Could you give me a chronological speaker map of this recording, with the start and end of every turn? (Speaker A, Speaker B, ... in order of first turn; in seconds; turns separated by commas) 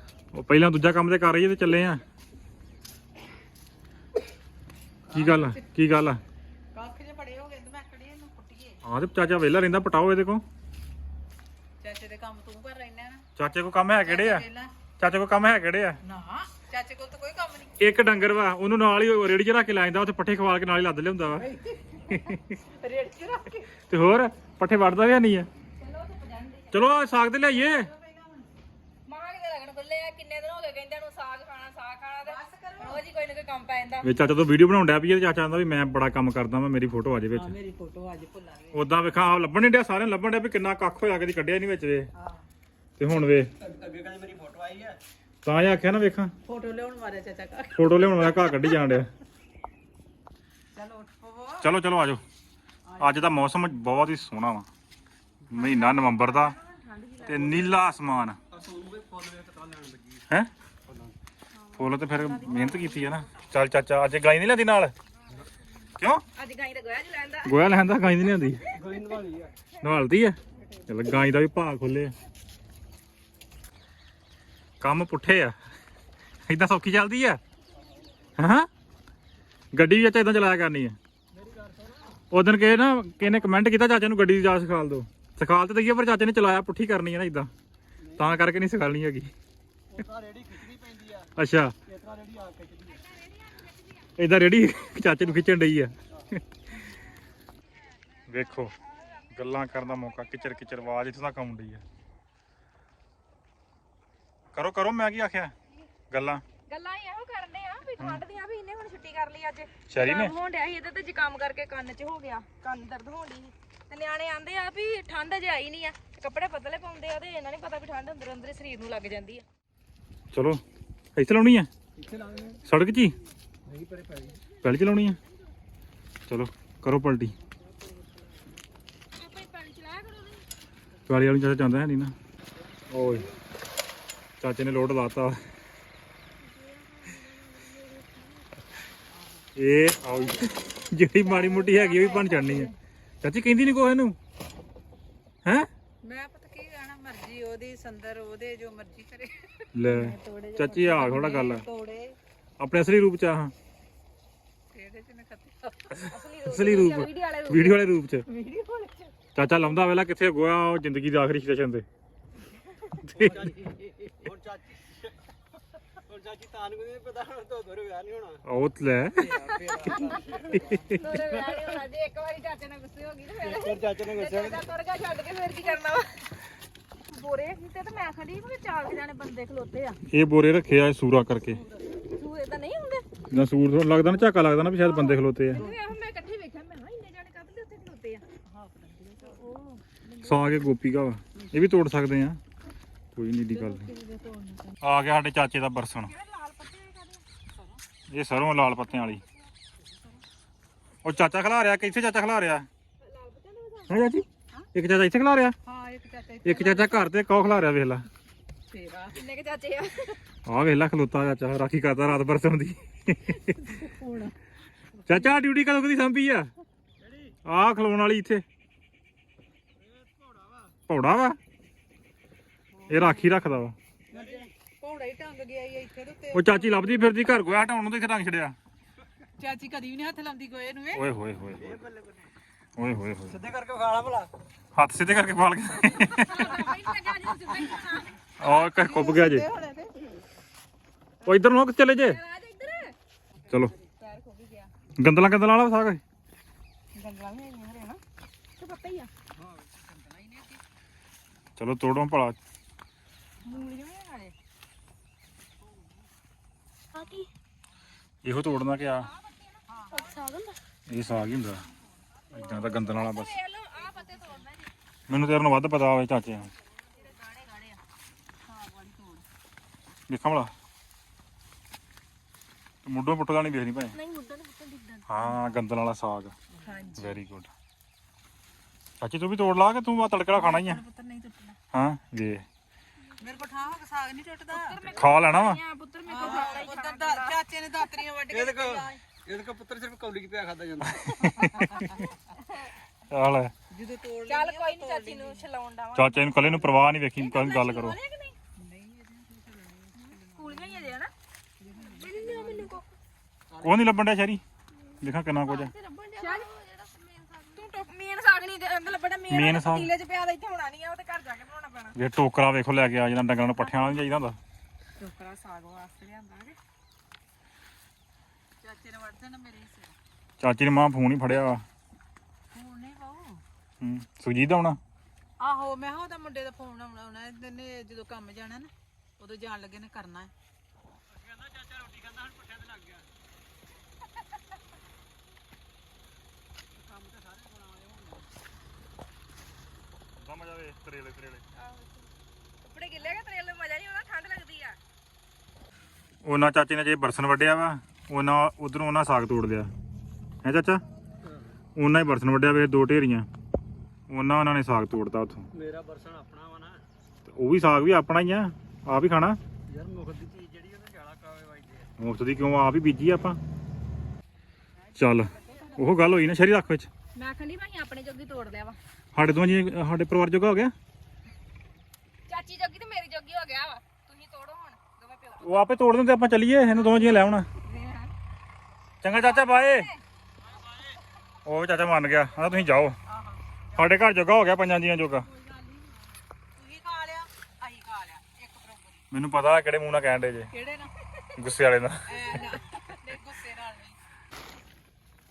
Speaker A: 0.3-2.0, Speaker B: 5.1-5.6, Speaker A: 5.1-6.2, Speaker B: 6.7-8.8, Speaker A: 8.8-10.4, Speaker B: 11.8-13.2, Speaker A: 13.4-14.5, Speaker B: 14.0-14.7, Speaker A: 15.0-16.0, Speaker B: 16.0-17.8, Speaker A: 17.8-21.5, Speaker B: 21.4-23.7, Speaker A: 22.1-22.6, Speaker A: 23.9-25.5, Speaker C: 25.8-26.9, Speaker A: 26.7-27.9, Speaker B: 27.6-28.5, Speaker C: 29.1-34.1, Speaker B: 32.2-33.0, Speaker A: 34.0-37.5, Speaker B: 37.3-38.8, Speaker A: 38.7-42.1, Speaker B: 42.1-42.5, Speaker A: 43.0-43.5, Speaker D: 43.6-45.0, Speaker A: 45.4-46.3, Speaker B: 46.5-48.8, Speaker A: 47.7-49.1, Speaker B: 50.8-51.7, Speaker A: 51.6-52.2, Speaker B: 52.9-53.3, Speaker A: 53.0-54.7, Speaker A: 55.5-56.5, Speaker C: 55.5-57.8, Speaker A: 57.2-58.4, Speaker D: 57.2-57.7, Speaker D: 58.5-60.2, Speaker D: 60.9-61.1, Speaker C: 61.5-63.3, Speaker A: 61.8-64.9, Speaker A: 66.0-66.2, Speaker C: 66.3-67.6, Speaker A: 67.5-68.7, Speaker D: 68.7-69.5, Speaker A: 69.8-72.1, Speaker A: 74.8-75.5, Speaker A: 76.5-77.4, Speaker A: 78.4-78.7, Speaker A: 79.7-81.0, Speaker D: 81.3-82.2, Speaker A: 82.3-87.5, Speaker D: 88.0-88.4, Speaker A: 88.2-89.3, Speaker D: 89.9-91.3, Speaker A: 91.4-91.8, Speaker D: 91.9-93.0, Speaker C: 93.0-94.1, Speaker A: 94.2-96.0, Speaker D: 96.1-96.4, Speaker B: 98.0-98.3, Speaker A: 98.3-98.8, Speaker C: 98.7-100.8, Speaker A: 99.3-101.8, Speaker A: 104.5-105.5, Speaker A: 106.1-106.4, Speaker C: 106.7-119.4, Speaker A: 109.9-110.3, Speaker A: 120.3-120.6, Speaker A: 121.2-121.7, Speaker D: 122.0-122.6, Speaker A: 122.7-123.2, Speaker D: 123.7-124.4, Speaker A: 124.6-125.2, Speaker A: 126.3-127.3, Speaker C: 129.2-130.4, Speaker A: 131.1-132.2, Speaker A: 132.9-133.3, Speaker A: 134.4-135.4, Speaker C: 136.4-138.5, Speaker B: 139.1-139.5, Speaker A: 139.6-142.7, Speaker C: 140.1-142.7, Speaker A: 143.2-144.2, Speaker B: 146.0-149.7, Speaker A: 149.7-151.7, Speaker C: 149.9-151.2, Speaker B: 150.8-152.2, Speaker A: 152.6-153.5, Speaker B: 154.7-155.9, Speaker A: 155.9-158.3, Speaker C: 156.1-159.1, Speaker A: 159.3-161.8, Speaker A: 163.0-163.5, Speaker D: 163.1-165.2, Speaker D: 165.9-168.4, Speaker A: 168.4-169.3, Speaker D: 169.2-171.6, Speaker C: 169.2-170.2, Speaker B: 169.3-170.2, Speaker A: 170.5-171.0, Speaker C: 170.9-176.3, Speaker D: 173.4-174.6, Speaker C: 177.1-180.0, Speaker A: 180.1-181.6, Speaker B: 181.6-181.8, Speaker C: 182.1-183.1, Speaker A: 183.3-185.7, Speaker C: 184.8-188.2, Speaker B: 185.5-185.9, Speaker B: 188.5-189.5, Speaker C: 189.2-190.4, Speaker A: 190.2-192.4, Speaker A: 193.2-193.9, Speaker B: 193.5-194.8, Speaker A: 194.8-196.1, Speaker C: 196.1-197.2, Speaker B: 197.5-197.8, Speaker A: 198.1-199.2, Speaker B: 199.8-200.2, Speaker A: 201.0-202.7, Speaker C: 203.0-204.1, Speaker A: 203.9-205.6, Speaker B: 205.7-207.1, Speaker A: 206.4-208.1, Speaker B: 208.7-209.2, Speaker C: 209.1-210.2, Speaker A: 210.5-213.8, Speaker B: 213.6-214.3, Speaker A: 215.1-216.5, Speaker D: 217.0-217.4, Speaker A: 217.4-218.4, Speaker D: 219.8-220.8, Speaker A: 220.9-221.4, Speaker B: 222.7-223.4, Speaker A: 222.9-223.8, Speaker D: 224.1-224.5, Speaker B: 224.1-227.2, Speaker A: 226.3-228.6, Speaker B: 229.4-231.1, Speaker A: 230.9-231.8, Speaker D: 231.6-232.3, Speaker A: 232.8-233.4, Speaker D: 233.3-234.3, Speaker A: 234.8-236.6, Speaker C: 236.0-238.3, Speaker B: 237.5-237.7, Speaker A: 238.4-239.5, Speaker B: 238.4-239.9, Speaker A: 241.2-242.2, Speaker C: 241.9-242.9, Speaker C: 244.0-244.7, Speaker A: 245.0-246.0, Speaker C: 246.9-248.0, Speaker C: 248.6-249.1, Speaker D: 249.3-250.6, Speaker A: 251.6-252.4, Speaker C: 253.4-254.3, Speaker D: 255.6-256.1, Speaker C: 256.9-257.3, Speaker A: 258.2-259.1, Speaker C: 258.7-260.5, Speaker B: 259.7-260.3, Speaker A: 260.9-261.6, Speaker A: 262.3-263.4, Speaker C: 262.4-264.7, Speaker B: 263.9-264.4, Speaker A: 265.1-266.5, Speaker C: 267.0-267.8, Speaker B: 268.4-269.2, Speaker A: 270.1-270.5, Speaker A: 272.8-274.0, Speaker C: 273.9-275.2, Speaker A: 275.1-276.4, Speaker B: 276.6-277.1, Speaker C: 276.7-277.0, Speaker A: 277.0-277.5, Speaker A: 279.0-280.8, Speaker B: 280.3-281.6, Speaker A: 281.7-282.5, Speaker B: 283.2-285.0, Speaker C: 284.5-287.4, Speaker A: 284.9-285.6, Speaker B: 286.1-289.0, Speaker D: 286.2-286.6, Speaker D: 288.3-291.3, Speaker A: 290.9-292.1, Speaker B: 291.4-292.1, Speaker C: 292.4-292.7, Speaker A: 293.1-293.5, Speaker B: 293.7-295.4, Speaker C: 294.3-298.4, Speaker A: 295.9-298.0, Speaker B: 298.6-300.9, Speaker C: 300.0-301.1, Speaker B: 301.6-302.8, Speaker C: 301.9-302.8, Speaker D: 303.5-303.9, Speaker A: 303.6-304.4, Speaker A: 305.0-305.7, Speaker C: 305.5-306.5, Speaker B: 306.0-307.8, Speaker C: 307.5-312.0, Speaker A: 309.3-309.9, Speaker A: 312.0-314.4, Speaker C: 315.0-316.6, Speaker B: 318.6-320.0, Speaker A: 320.4-321.6, Speaker B: 322.5-323.4, Speaker A: 323.8-324.8, Speaker B: 325.4-330.3, Speaker D: 331.1-333.1, Speaker D: 336.7-338.3, Speaker A: 340.2-341.4, Speaker C: 341.6-342.1, Speaker C: 342.6-344.8, Speaker A: 346.2-349.7, Speaker A: 350.4-350.8, Speaker D: 351.2-351.6, Speaker A: 351.8-353.3, Speaker A: 354.1-355.5, Speaker D: 355.5-356.8, Speaker A: 357.3-359.4, Speaker D: 359.7-361.9, Speaker A: 362.0-363.4, Speaker B: 364.9-366.1, Speaker A: 365.0-366.9, Speaker C: 367.1-368.8, Speaker A: 369.1-370.7, Speaker C: 372.3-375.6, Speaker A: 375.4-377.5, Speaker C: 377.6-378.1, Speaker A: 379.0-379.9, Speaker C: 379.1-380.0, Speaker D: 380.4-381.0, Speaker A: 381.4-383.0, Speaker B: 383.1-383.8, Speaker A: 383.8-385.3, Speaker B: 385.2-389.1, Speaker A: 389.1-390.5, Speaker B: 390.5-390.9, Speaker A: 391.4-392.6, Speaker B: 392.1-394.0